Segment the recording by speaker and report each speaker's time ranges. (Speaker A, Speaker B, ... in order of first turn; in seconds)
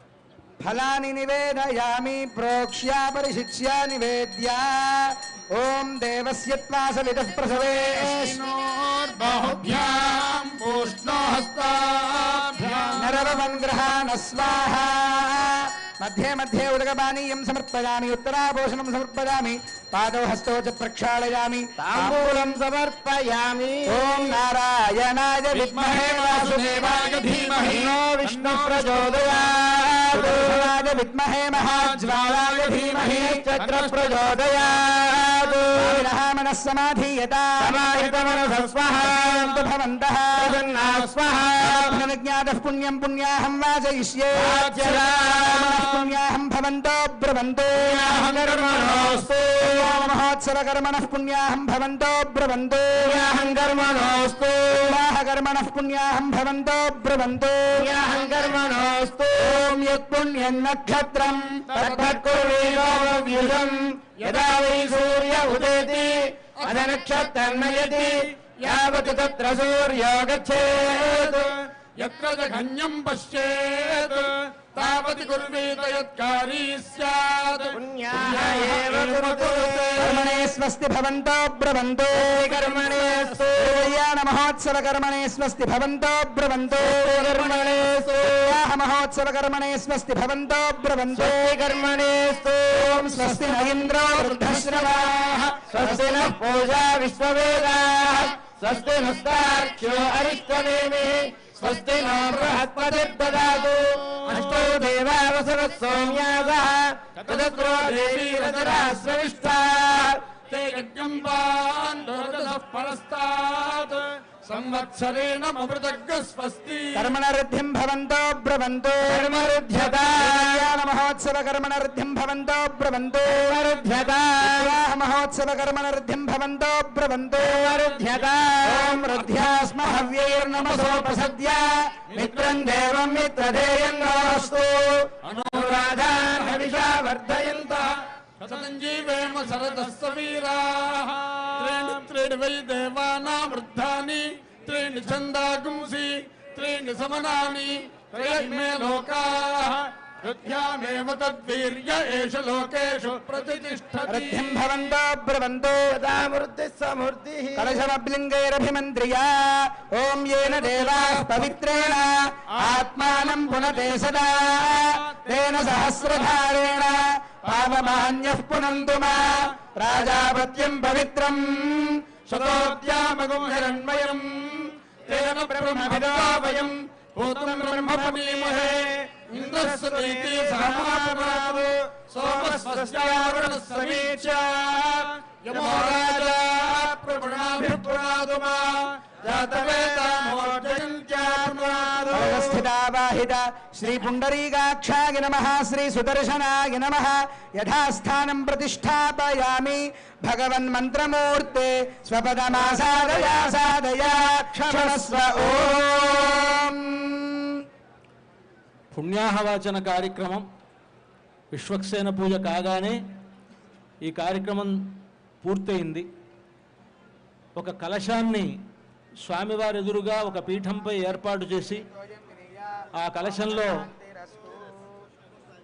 Speaker A: 0.6-8.4, 13.0-22.6, 23.9-27.7, 30.1-33.4, 35.8-37.8, 39.1-40.6, 41.6-47.9, 49.6-53.2, 54.8-57.8, 59.4-61.9, 80.0-82.6, 83.5-87.3, 88.2-91.4, 92.8-96.3, 116.9-119.3, 120.2-123.6, 124.4-127.7, 128.6-134.9, 154.1-155.9, 157.6-172.0, 192.1-207.6
Speaker B: 7.9-13.2, 25.5-29.5, 31.5-33.0, 33.6-34.2, 40.9-41.1, 45.7-46.1, 48.0-49.3, 61.7-62.7, 64.2-64.9, 66.6-66.9, 67.5-68.7, 72.0-80.4, 82.6-83.4, 87.4-88.1, 93.1-95.6, 102.2-102.5, 104.2-104.7, 107.2-109.3, 110.5-117.1, 129.2-129.4, 135.2-136.5, 138.4-154.7, 160.6-161.4, 163.3-163.6, 172.3-192.0
Speaker C: 21.8-24.0, 27.6-30.7, 32.9-36.1, 37.6-39.6, 40.4-42.0, 44.3-45.8, 47.8-50.0, 53.0-55.0, 57.8-59.6, 61.7-71.5, 77.7-80.1, 82.1-83.9, 86.8-88.3, 91.1-93.1, 95.7-110.2, 119.1-120.7, 123.3-124.8, 127.4-129.0, 132.2-132.7, 134.2-138.0, 155.9-157.8, 175.6-176.7, 177.5-186.3, 187.6-187.9, 189.2-192.6, 202.7-203.5, 204.6-205.7
Speaker D: 208.9-210.4, 211.5-213.0, 214.0-216.1, 217.6-218.6, 219.2-221.9, 222.9-223.9